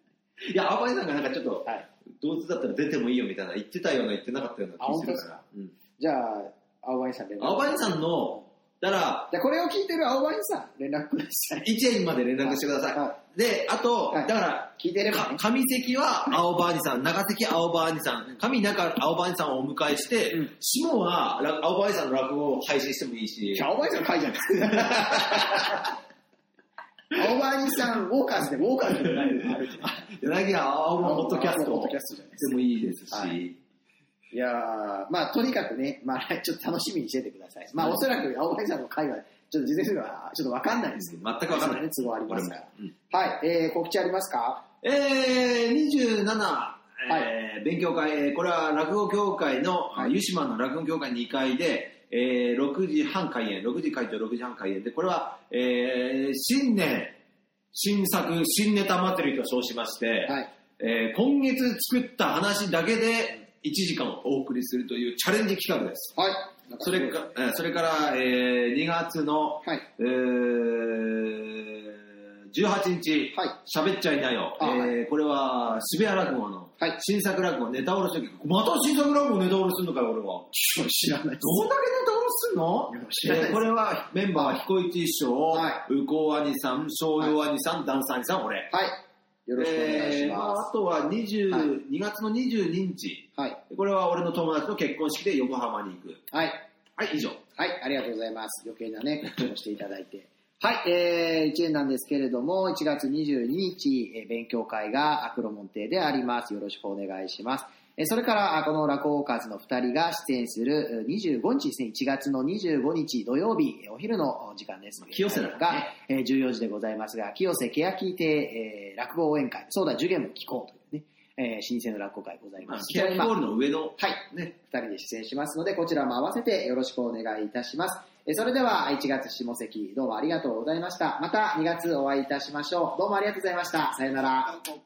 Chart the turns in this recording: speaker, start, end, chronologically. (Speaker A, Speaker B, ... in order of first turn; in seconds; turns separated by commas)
Speaker A: 0.4-5.7, Speaker B: 4.8-5.4, Speaker B: 6.0-8.4, Speaker A: 7.4-9.3, Speaker B: 9.3-11.7, Speaker A: 11.7-23.7, Speaker B: 12.4-13.2, Speaker B: 14.1-15.4, Speaker B: 23.5-25.9, Speaker A: 24.9-25.7, Speaker B: 27.1-30.1, Speaker A: 29.4-33.6, Speaker B: 31.0-32.5, Speaker B: 33.1-33.4, Speaker B: 34.3-44.6, Speaker A: 41.0-42.9, Speaker A: 44.8-57.2, Speaker A: 57.7-66.2, Speaker B: 66.2-67.3, Speaker A: 66.8-80.5, Speaker B: 74.6-75.0, Speaker B: 80.5-81.7, Speaker A: 81.4-88.7, Speaker B: 82.9-83.6, Speaker B: 85.5-85.8, Speaker B: 88.7-90.7, Speaker A: 89.6-96.2, Speaker B: 96.3-96.7, Speaker A: 97.0-97.4, Speaker B: 97.6-123.3, Speaker A: 115.0-115.9, Speaker A: 122.6-124.5, Speaker B: 124.0-134.6